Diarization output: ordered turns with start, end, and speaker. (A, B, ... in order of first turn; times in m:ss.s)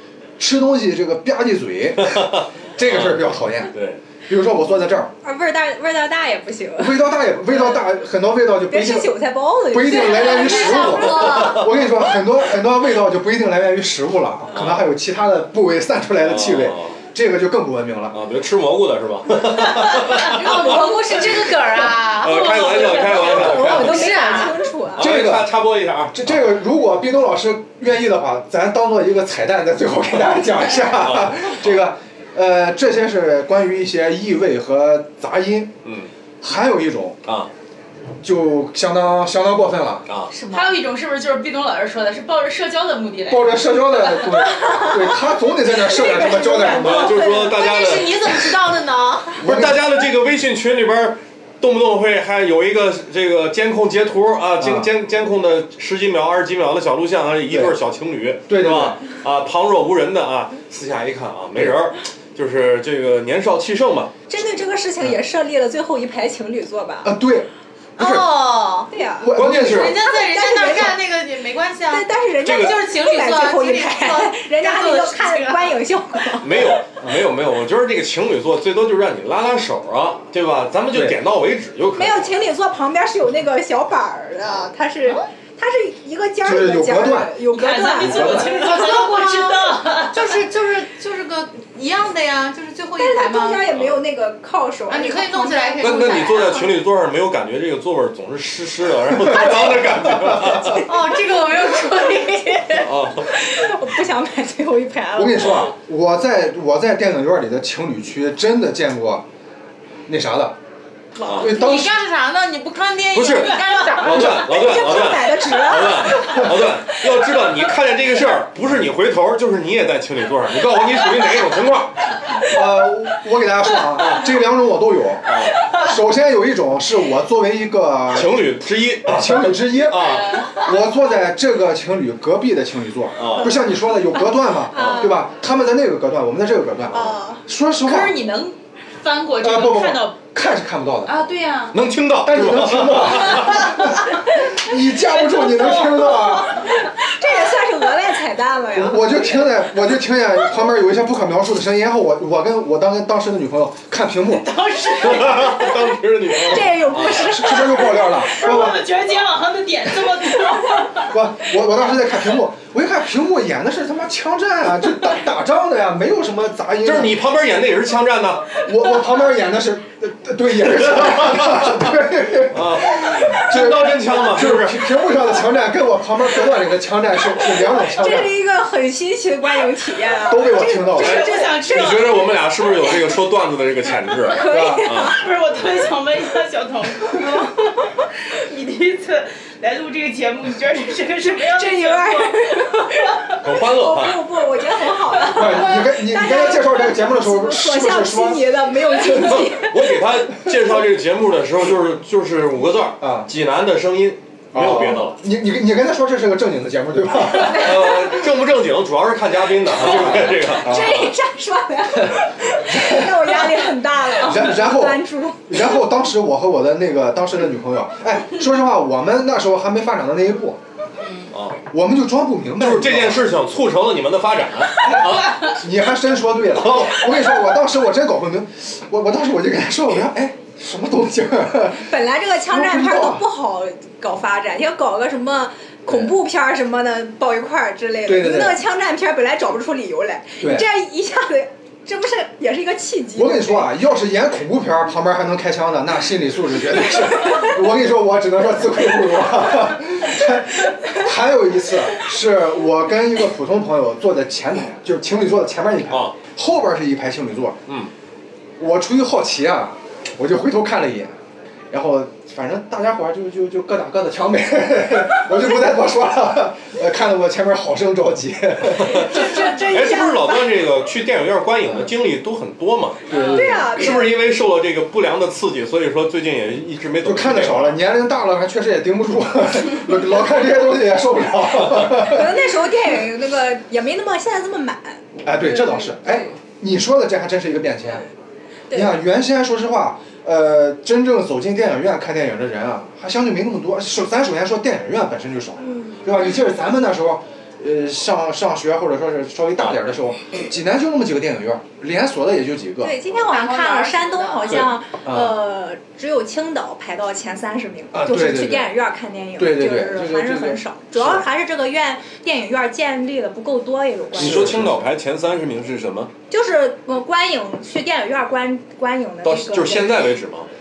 0:00.4-0:03.7 A
0:02.0-0:04.0 B
0:04.2-0:05.1 A
0:05.2-0:07.0 C
0:06.8-0:09.1 A
0:08.7-0:11.6 C
0:09.7-0:18.2 A
0:09.9-0:11.7 D
0:14.5-0:14.9 B
0:16.2-0:17.0 B
0:18.1-0:21.4 B
0:20.1-0:24.6 D
0:20.2-0:21.0 E
0:22.0-0:24.4 B
0:22.4-0:23.1 E
0:22.8-0:25.1 C
0:24.9-0:26.4 B
0:25.0-0:25.5 A
0:26.1-0:35.7 A
0:30.9-0:31.7 B
0:35.8-0:36.1 B
0:36.4-0:37.2 A
0:38.2-0:40.1 A
0:40.1-0:40.3 B
0:40.3-0:40.8 D
0:40.5-0:44.3 E
0:43.3-0:47.2 A
0:44.6-0:44.9 C
0:45.6-0:47.5 C
0:46.7-0:48.5 B
0:46.7-0:49.4 D
0:49.4-1:04.1 B
0:49.4-0:49.8 A
0:54.6-0:54.9 A
0:57.5-0:57.8 A
0:58.5-0:59.0 A
1:04.3-1:07.1 C
1:07.0-1:08.2 A
1:08.0-1:08.9 D
1:08.9-1:09.3 C
1:09.2-1:10.0 A
1:09.3-1:10.0 B
1:09.4-1:15.8 D
1:10.0-1:11.0 C
1:11.9-1:16.7 C
1:12.4-1:12.8 B
1:16.4-1:22.3 B
1:20.9-1:21.2 A
1:22.0-1:28.9 C
1:26.4-1:27.4 A
1:27.5-1:30.4 E
1:28.0-1:28.5 A
1:28.4-1:33.7 D
1:33.0-1:36.2 C
1:34.9-1:36.7 D
1:35.8-1:40.9 B
1:39.2-1:40.8 A
1:40.8-1:42.9 D
1:42.7-1:43.3 B
1:43.3-1:45.7 C
1:45.1-1:49.2 A
1:50.1-1:50.6 A
1:51.2-1:51.6 B
1:51.2-1:55.1 D
1:51.3-1:52.0 A
1:53.1-2:02.2 B
1:53.4-1:53.8 E
1:54.2-1:56.5 C
2:02.4-2:08.3 A
2:04.0-2:04.3 B
2:05.2-2:05.6 B
2:08.1-2:10.5 B
2:09.0-2:18.2 A
2:10.0-2:10.6 E
2:13.2-2:13.6 B
2:14.7-2:15.2 C
2:14.7-2:15.1 B
2:16.9-2:17.4 C
2:17.8-2:20.2 E
2:19.4-2:21.3 A
2:21.1-2:21.8 E
2:21.7-2:23.7 B
2:22.2-2:26.7 A
2:25.4-2:25.9 E
2:26.6-2:29.6 C
2:28.7-2:34.5 A
2:34.3-2:35.8 E
2:35.0-2:37.4 B
2:35.3-2:35.7 C
2:36.4-2:38.4 C
2:36.9-2:38.9 A
2:38.2-2:41.1 E
2:41.0-2:47.2 A
2:46.8-2:48.6 B
2:48.6-2:58.3 A
2:50.8-2:51.8 B
2:52.5-2:55.0 B
2:57.8-3:02.1 C
3:00.3-3:01.3 A
3:00.7-3:02.3 E
3:01.0-3:05.2 B
3:04.3-3:05.2 C
3:04.5-3:04.9 A
3:05.0-3:13.3 E
3:11.5-3:20.0 C
3:13.4-3:14.2 B
3:15.3-3:18.6 A
3:19.0-3:25.2 B
3:23.0-3:23.3 A
3:24.5-3:28.1 A
3:27.3-3:31.1 B
3:29.8-3:31.1 A
3:30.4-3:35.8 C
3:32.6-3:40.6 A
3:41.3-3:41.6 B
3:41.7-3:43.4 A
3:42.6-3:45.6 B
3:45.4-3:51.9 A
3:46.6-3:47.3 B
3:51.7-4:03.7 C
3:52.5-3:53.2 A
3:55.9-3:56.1 A
3:58.0-3:58.6 A
4:00.4-4:00.6 A
4:03.2-4:17.6 A
4:15.9-4:16.1 B
4:18.6-4:21.1 A
4:21.7-4:29.2 A
4:28.8-4:37.8 B
4:28.8-4:30.6 C
4:33.1-4:33.7 A
4:33.2-4:34.1 C
4:37.0-4:42.4 A
4:41.9-4:46.3 C
4:45.2-4:48.0 A
4:48.7-4:49.0 C
4:48.7-5:03.0 A
4:55.7-4:56.0 C
5:02.8-5:14.5 C
5:03.2-5:04.7 D
5:05.0-5:05.4 A
5:07.9-5:08.7 A
5:09.4-5:11.2 A
5:14.1-5:16.1 B
5:14.2-5:14.9 A
5:16.3-5:20.1 C
5:19.2-5:20.5 B